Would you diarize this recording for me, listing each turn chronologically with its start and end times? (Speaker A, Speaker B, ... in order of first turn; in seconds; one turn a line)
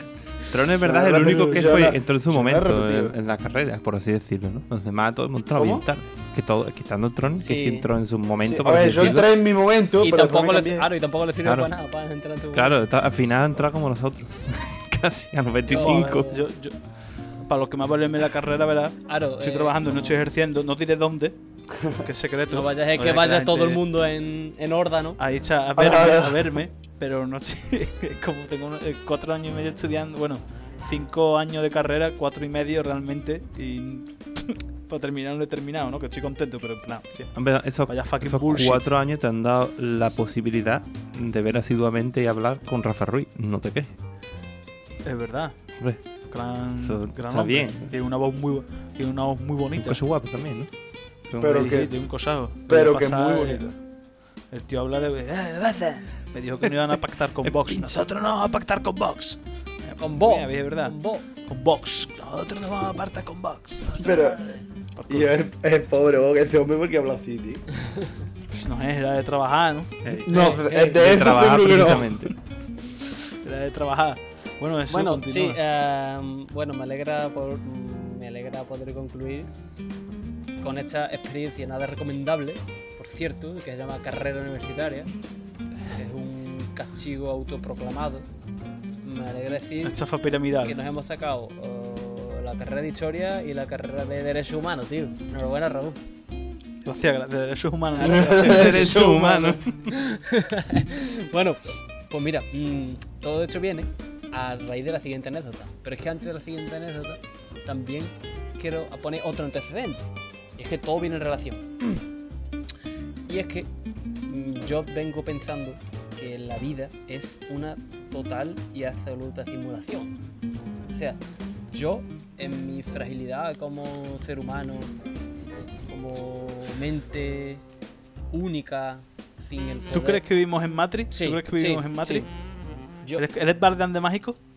Speaker A: 0.5-9.3
Speaker B: 0.8-3.1
Speaker B: 5.5-5.8
Speaker C: 7.4-7.9
Speaker B: 8.4-10.9
Speaker C: 10.0-12.8
Speaker A: 11.4-11.7
Speaker A: 12.5-16.3
Speaker C: 15.7-16.4
Speaker D: 15.7-16.8
Speaker D: 17.4-21.4
Speaker C: 19.1-20.2
Speaker D: 21.9-23.8
Speaker C: 22.5-25.2
Speaker D: 25.2-37.3
Speaker B: 25.8-26.6
Speaker A: 37.3-43.9
Speaker D: 37.9-38.9
Speaker D: 45.0-45.6
Speaker D: 46.3-50.0
Speaker A: 46.8-47.9
Speaker A: 49.8-50.7
Speaker A: 51.3-51.7
Speaker B: 51.4-51.9
Speaker D: 51.4-53.6
Speaker B: 52.7-53.8
Speaker D: 54.5-65.4
Speaker A: 57.4-58.0
Speaker C: 60.0-61.2
Speaker B: 64.0-64.5
Speaker B: 65.1-67.6
Speaker D: 68.5-70.0
Speaker A: 70.0-72.3
Speaker B: 70.2-72.3
Speaker C: 70.3-71.2
Speaker D: 73.4-75.6
Speaker C: 74.9-79.5
Speaker C: 80.6-85.1
Speaker C: 85.9-88.2
Speaker C: 89.0-90.0
Speaker D: 89.8-90.8
Speaker C: 90.6-96.0
Speaker D: 96.8-99.6
Speaker C: 98.0-98.4
Speaker B: 98.0-99.6
Speaker A: 98.4-99.7
Speaker C: 99.9-112.0
Speaker C: 113.2-113.7
Speaker C: 114.2-120.2
Speaker C: 120.9-124.9
Speaker C: 125.9-127.6
Speaker C: 128.3-130.2
Speaker D: 129.9-132.3
Speaker C: 131.1-132.3
Speaker D: 133.1-134.4